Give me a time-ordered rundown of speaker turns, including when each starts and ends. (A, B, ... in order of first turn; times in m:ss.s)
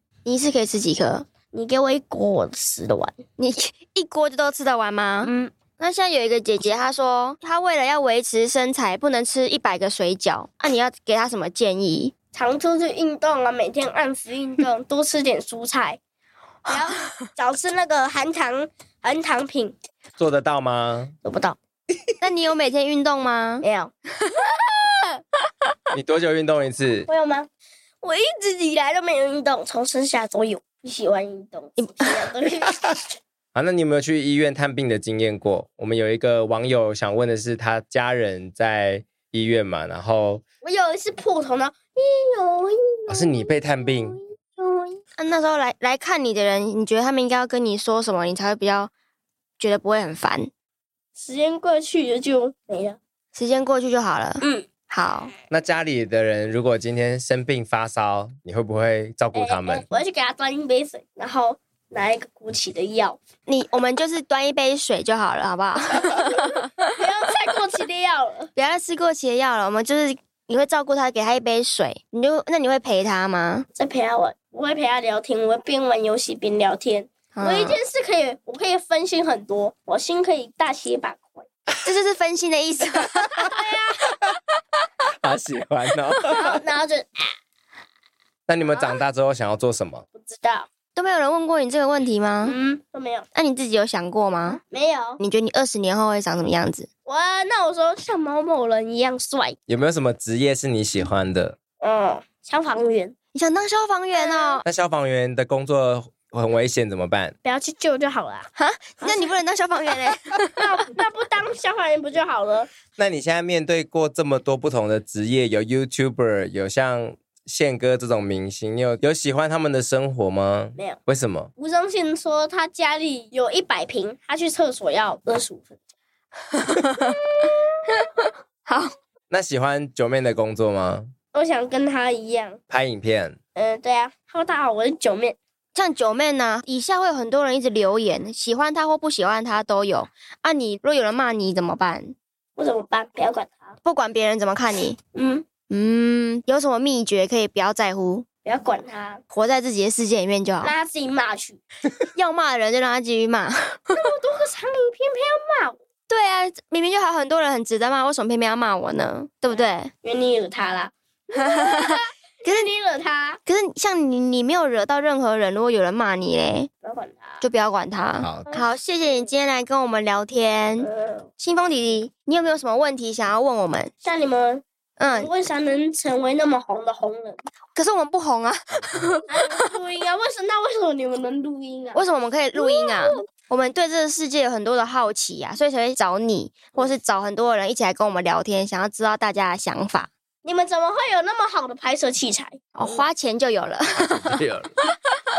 0:00.2-0:01.3 A
0:01.5-0:03.2 B
0:03.4-0:12.1 A
0:05.2-0:05.5 B
0:12.3-0:16.0 B
0:16.7-0:19.8 B
0:20.2-0:21.2 C
0:21.2-0:21.6 B
0:22.2-0:23.6 A
0:23.6-0:25.0 B
0:25.9-0:27.1 C
0:27.1-0:27.5 B
0:28.0-0:33.2 B
0:31.8-0:32.0 A
0:33.6-0:40.4 C
0:40.6-0:45.0 B
0:43.1-0:44.2 C
0:45.2-0:48.9 A
0:49.6-0:50.5 A
0:51.2-0:53.0 B
0:53.4-0:55.3 A
0:54.4-0:54.7 B
0:55.5-0:59.9 C
0:59.3-1:03.2 B
1:03.5-1:06.8 A
1:06.1-1:08.5 B
1:08.6-1:13.7 A
1:13.8-1:21.5 B
1:17.4-1:17.8 A
1:21.8-1:23.5 A
1:23.4-1:24.2 B
1:25.2-1:26.6 C
1:26.2-1:27.3 B
1:28.5-1:30.0 C
1:28.7-1:29.0 B
1:30.2-1:30.7 B
1:31.0-1:32.6 A
1:32.4-1:33.3 B
1:33.3-1:34.6 A
1:34.6-1:35.2 B
1:35.2-1:36.9 A
1:37.1-1:39.6 B
1:39.7-1:41.6 C
1:41.8-1:43.2 B
1:43.3-1:44.6 A
1:44.1-1:44.6 B
1:44.6-1:47.4 C
1:47.4-1:48.5 B
1:48.6-1:50.6 A
1:49.0-1:49.4 B
1:50.6-1:52.7 B
1:53.0-2:01.5 C
2:01.6-2:05.8 B
2:06.5-2:07.2 A
2:09.3-2:11.1 C
2:11.3-2:12.6 B
2:12.7-2:13.4 C
2:13.6-2:15.4 B
2:15.8-2:22.2 A
2:22.6-2:23.8 B
2:23.8-2:25.0 A
2:25.1-2:25.5 B
2:25.7-2:28.3 A
2:28.4-2:29.2 B
2:29.3-2:30.7 A
2:30.6-2:31.6 B
2:32.2-2:34.0 A
2:33.9-2:35.8 B
2:36.1-2:39.9 A
2:40.0-2:43.4 B
2:41.4-2:42.7 A
2:43.5-2:46.7 A
2:46.8-2:47.4 B
2:47.4-2:53.9 A
2:48.2-2:48.5 C
2:50.8-2:51.3 B
2:54.0-2:57.4 B
2:55.0-2:55.3 A
2:57.8-2:59.4 A
2:59.3-3:03.2 B
3:02.0-3:10.1 A
3:10.4-3:13.1 B
3:12.8-3:14.4 A
3:14.2-3:14.7 C